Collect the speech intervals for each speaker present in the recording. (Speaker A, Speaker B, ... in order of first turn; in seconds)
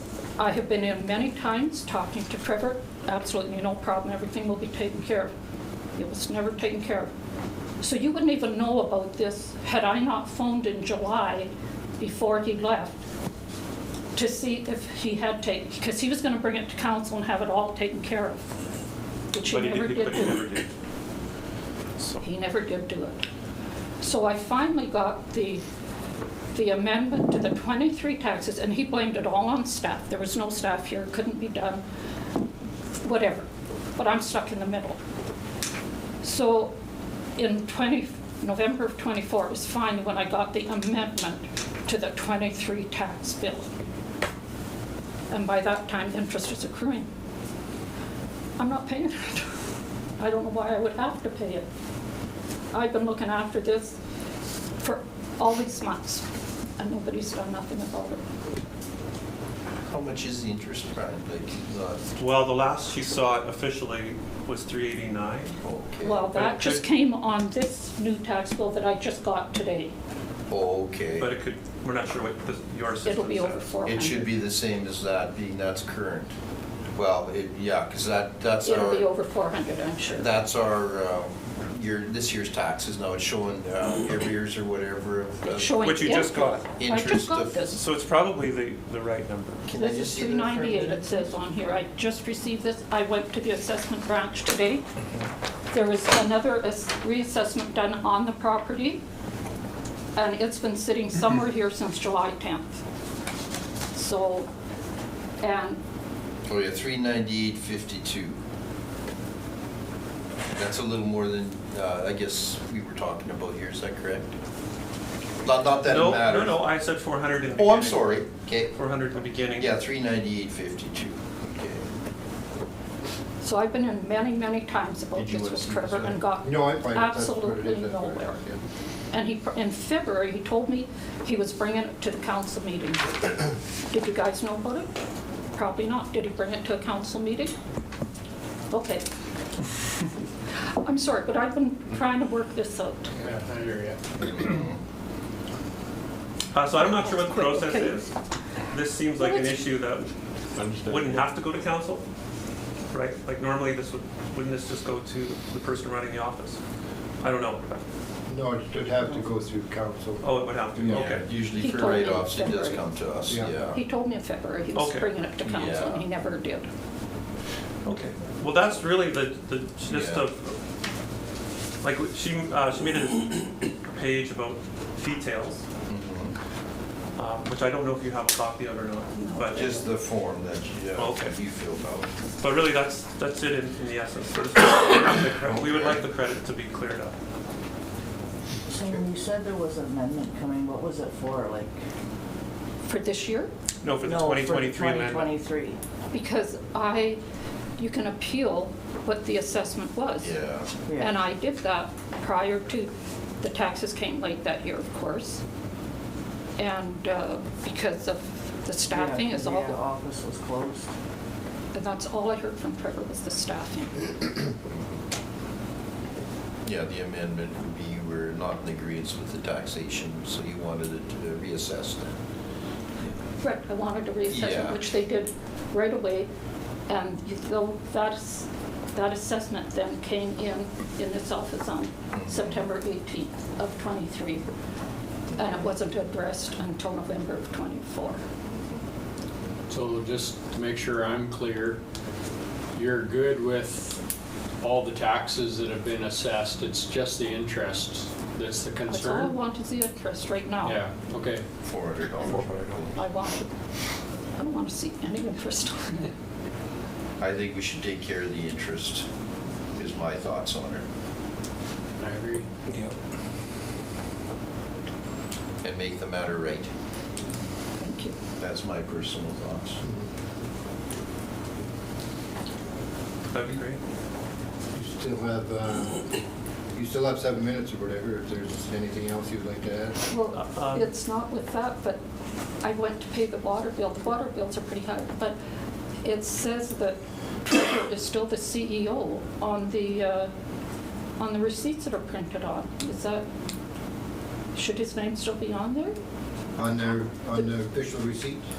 Speaker A: 0.4-5.3, 6.0-7.1, 7.8-13.0, 14.1-18.5, 19.3-20.4, 22.2-23.2, 24.0-25.6, 26.5-31.8, 33.0-35.0, 36.2-36.7, 37.4-43.7, 45.3-47.1, 48.6-49.5, 50.2-51.7, 52.7-54.0, 54.8-56.2, 56.8-58.2, 66.0-69.9, 73.0-74.3, 78.6-80.3, 85.4-87.8, 89.8-94.8, 95.7-99.0, 100.2-102.8, 103.9-104.5, 105.4-105.8, 123.4-128.4, 129.1-133.3, 133.9-134.9, 135.5-137.5, 138.7-139.0, 140.6-143.1, 146.8-148.0, 149.2-149.6, 161.6-162.8, 163.7-166.7, 179.2-179.8, 192.9-193.5, 196.1-197.2, 197.8-200.3, 201.0-205.4, 206.6-209.8, 211.7-214.2, 223.4-226.3, 226.9-234.4, 235.3-238.2, 248.9-250.8, 252.9-253.5, 254.4-256.1, 267.8-268.1, 280.1-282.0, 282.6-285.4, 286.0-290.3, 291.2-293.2, 294.5-296.0
Speaker B: 19.4-20.7, 21.9-22.2, 62.2-65.6, 66.3-66.8, 71.2-73.7, 85.8-86.7, 87.8-89.7, 115.8-119.7, 146.5-148.1, 148.7-150.1, 150.7-152.0, 152.9-156.6, 157.2-157.6, 160.2-161.2, 164.7-165.1, 167.8-170.6, 171.8-175.6, 177.2-179.8, 180.9-181.4, 182.4-187.1, 193.8-195.3, 252.2-252.8, 262.7-262.9, 273.3-273.8, 280.4-280.9
Speaker C: 59.8-62.0, 65.6-66.3, 70.5-71.3, 73.8-76.3, 76.9-79.1, 80.1-87.6, 89.7-91.0, 106.4-108.4, 110.5-114.3, 115.4-116.6, 117.5-118.7, 119.6-121.9, 144.2-144.8, 160.9-163.8, 165.4-166.0, 169.9-170.2, 175.9-176.3, 179.5-182.1, 185.4-186.0, 200.2-200.8, 214.7-215.0, 216.6-222.1, 224.3-224.8, 232.1-232.7, 251.6-253.0, 257.2-259.1, 259.8-260.8, 265.6-266.7, 268.4-269.8
Speaker D: 125.1-126.1, 143.2-144.4, 239.7-241.8, 242.7-244.0, 244.6-249.3, 250.6-251.4, 262.0-262.5
Speaker E: 126.4-128.6, 158.3-161.1, 163.3-163.5, 269.8-270.1, 274.7-276.2, 276.7-280.1, 296.6-298.4
Speaker F: 188.7-191.8, 194.0-195.8, 200.9-201.2, 208.9-210.9